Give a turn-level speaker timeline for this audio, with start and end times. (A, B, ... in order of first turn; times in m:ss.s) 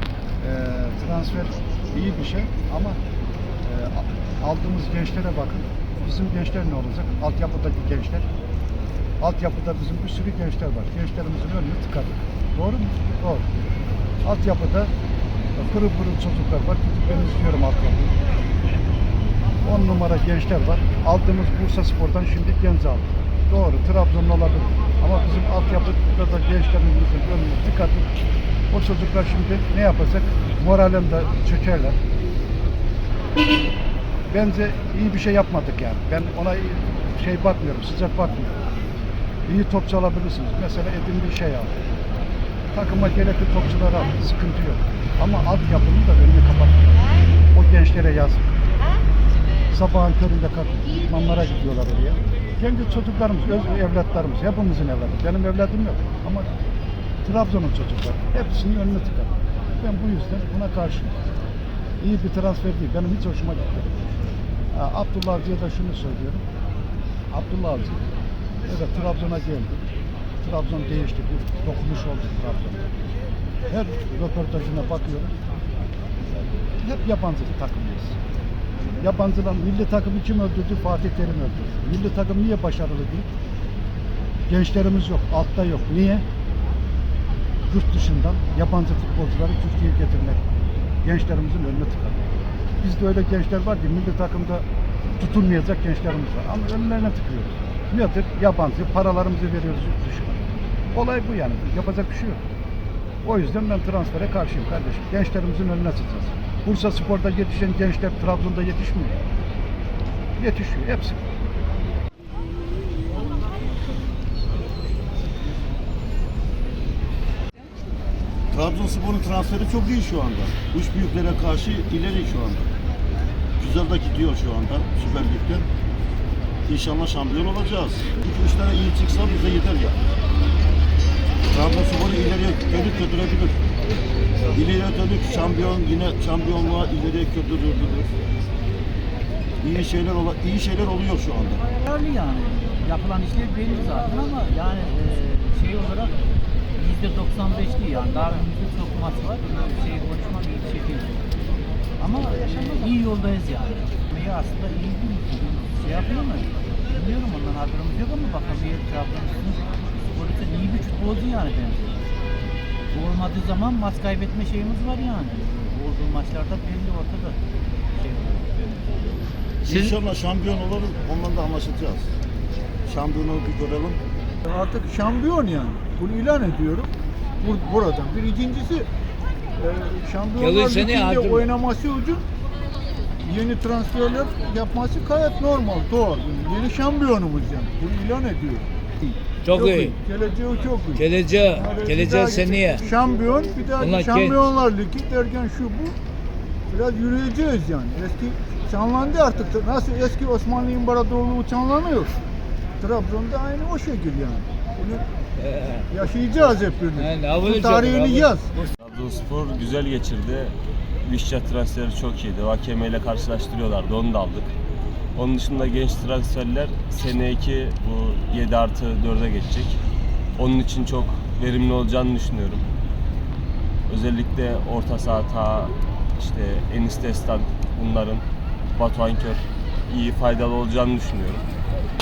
0:00.4-0:03.0 A
0:03.6-0:08.3 A
0:09.2-0:13.5 A
0:14.2-0:14.9 A
0:15.6-0:18.2 A
0:19.6-0:28.2 A
0:28.7-0:32.0 A
0:34.3-0:38.6 A
0:39.5-0:41.7 A
0:42.7-0:48.5 A
0:49.7-0:56.5 A
0:57.2-1:01.2 A
1:02.0-1:04.1 A
1:04.7-1:06.4 A
1:07.3-1:08.1 A
1:08.7-1:09.9 A
1:10.4-1:12.8 A
1:13.7-1:15.4 A
1:16.8-1:18.2 A
1:19.0-1:23.3 A
1:24.5-1:26.2 A
1:27.7-1:30.4 A
1:31.0-1:32.2 A
1:32.8-1:34.6 A
1:35.2-1:42.4 A
1:43.2-1:49.2 A
1:50.4-1:51.2 A
1:58.5-2:02.7 B
2:03.6-2:05.7 B
2:06.7-2:10.0 B
2:11.5-2:13.6 B
2:14.5-2:18.1 B
2:19.6-2:21.7 B
2:21.9-2:26.1 C
2:26.8-2:31.2 C
2:32.0-2:42.0 C
2:42.9-2:47.4 C
2:48.0-2:48.8 C
2:49.6-2:52.1 B
2:52.9-2:54.0 B
2:54.5-2:58.9 D
2:59.6-3:02.3 D
3:00.4-3:01.4 E
3:03.2-3:08.7 D
3:09.4-3:10.0 E
3:09.5-3:16.0 D
3:11.0-3:12.9 E
3:13.8-3:14.4 E
3:16.7-3:22.2 D
3:22.8-3:25.0 D
3:25.4-3:25.9 E
3:25.9-3:28.5 D
3:27.0-3:28.7 E
3:28.8-3:34.5 F
3:35.2-3:39.8 F
3:40.4-3:42.6 F
3:43.9-3:48.2 F
3:48.8-3:51.4 F